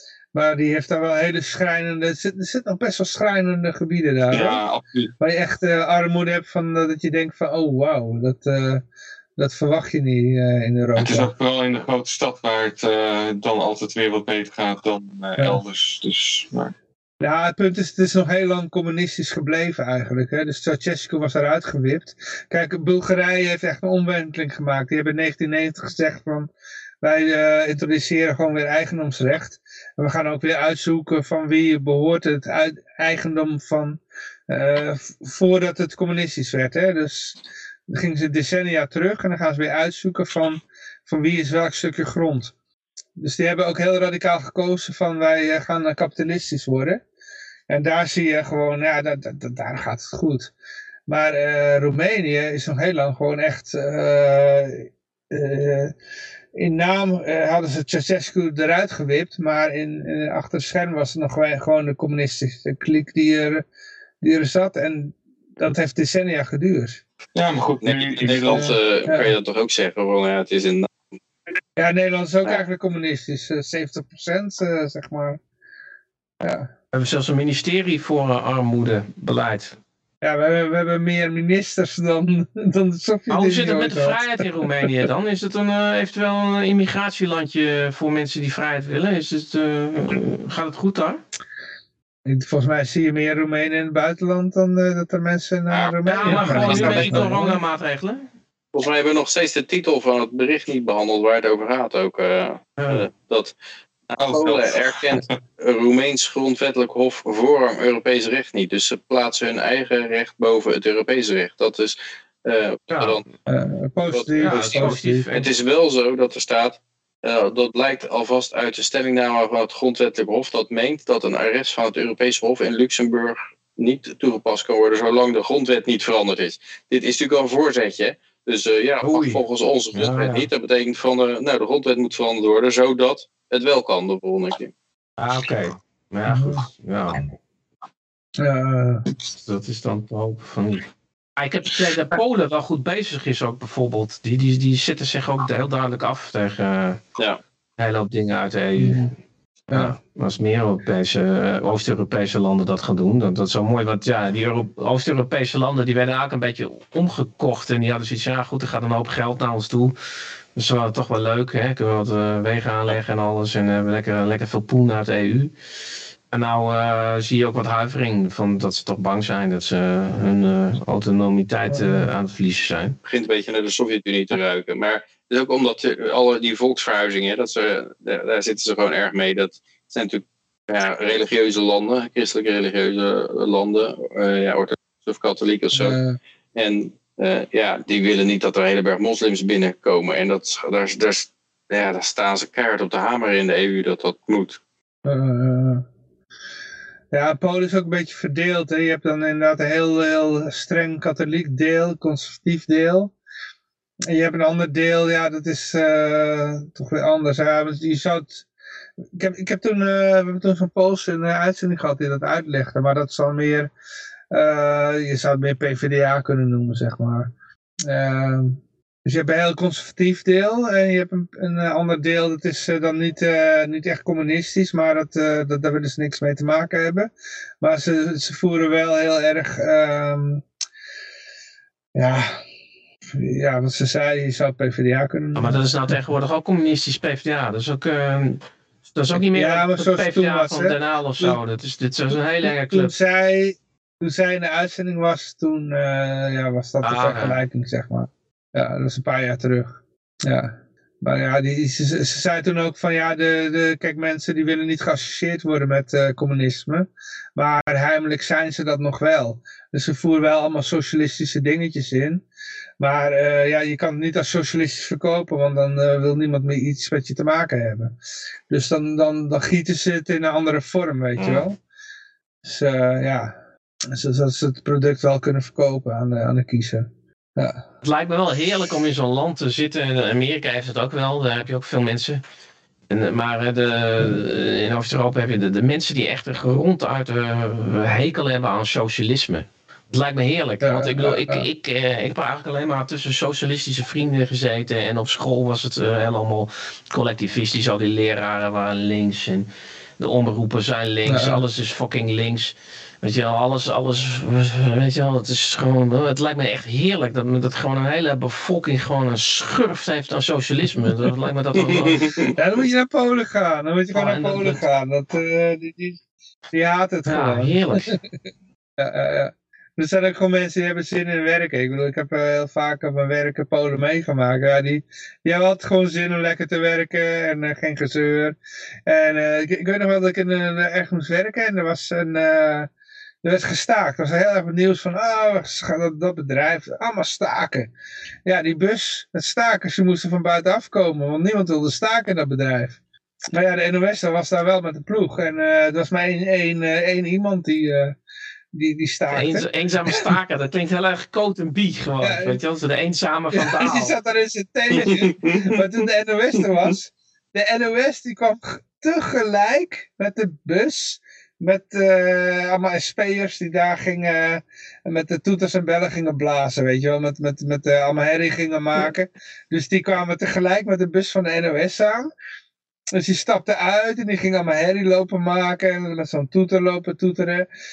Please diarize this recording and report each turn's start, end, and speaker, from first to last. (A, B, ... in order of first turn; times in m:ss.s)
0:00.3-0:04.6 A
0:04.3-0:05.1 B
0:05.2-0:08.8 A
0:09.4-0:11.3 A
0:11.0-0:16.7 B
0:17.2-0:26.5 A
0:27.0-0:34.0 A
0:34.5-0:37.4 A
0:37.9-0:42.5 A
0:43.2-0:47.0 A
0:47.7-0:50.5 A
0:51.1-0:55.9 A
0:56.6-1:03.6 A
1:04.2-1:07.0 A
1:07.3-1:08.7 B
1:07.8-1:10.9 C
1:08.2-1:09.3 A
1:11.8-1:15.4 A
1:16.4-1:16.7 A
1:16.9-1:19.7 D
1:20.2-1:24.2 A
1:23.3-1:31.2 D
1:32.2-1:37.6 A
1:35.7-1:37.4 C
1:36.0-1:38.2 D
1:38.7-1:43.5 C
1:42.8-1:43.1 D
1:44.1-1:53.2 C
1:44.2-1:45.3 B
1:52.9-1:53.2 D
1:53.5-1:55.2 A
1:54.1-2:14.7 C
1:54.4-1:55.5 D
2:09.0-2:09.4 D
2:09.9-2:10.5 D
2:15.2-2:17.3 D
2:16.3-2:16.6 A
2:18.4-2:19.0 A
2:19.3-2:27.0 D
2:27.8-2:29.1 D
2:28.8-2:29.1 A
2:29.7-2:39.9 D
2:40.5-2:45.5 D
2:46.3-2:53.0 D
2:51.7-2:52.1 A
2:53.0-3:06.0 C
3:05.7-3:06.2 A
3:06.5-3:14.6 C
3:15.0-3:15.8 A
3:17.1-3:23.1 A
3:24.1-3:28.4 A
3:29.1-3:33.7 A
3:34.3-3:37.3 A
3:37.8-3:47.1 A
3:47.6-3:50.4 A
3:51.9-3:52.4 A
3:53.1-3:55.6 A
3:55.3-4:02.9 D
3:59.3-4:01.4 A
4:02.4-4:09.7 A
4:06.8-4:07.4 D
4:10.2-4:22.2 A
4:22.8-4:27.9 A
4:28.5-4:31.6 A
4:32.4-4:33.3 A
4:33.9-4:37.6 A
4:37.8-4:42.2 D
4:42.9-4:59.5 D
4:50.6-4:51.4 A
5:00.0-5:12.2 D
5:01.0-5:01.4 A
5:11.6-5:12.3 C
5:12.3-5:16.0 A
5:13.9-5:14.6 D
5:16.5-5:18.1 A
5:17.0-5:18.0 D
5:18.8-5:28.3 A
5:28.9-5:32.7 A
5:33.2-5:37.7 A
5:38.2-5:42.8 A
5:43.3-5:48.0 A
5:48.5-5:49.4 A
5:49.1-5:53.9 D
5:52.0-5:52.4 A
5:53.3-6:12.1 A
5:54.7-5:55.5 C
6:12.9-6:17.4 A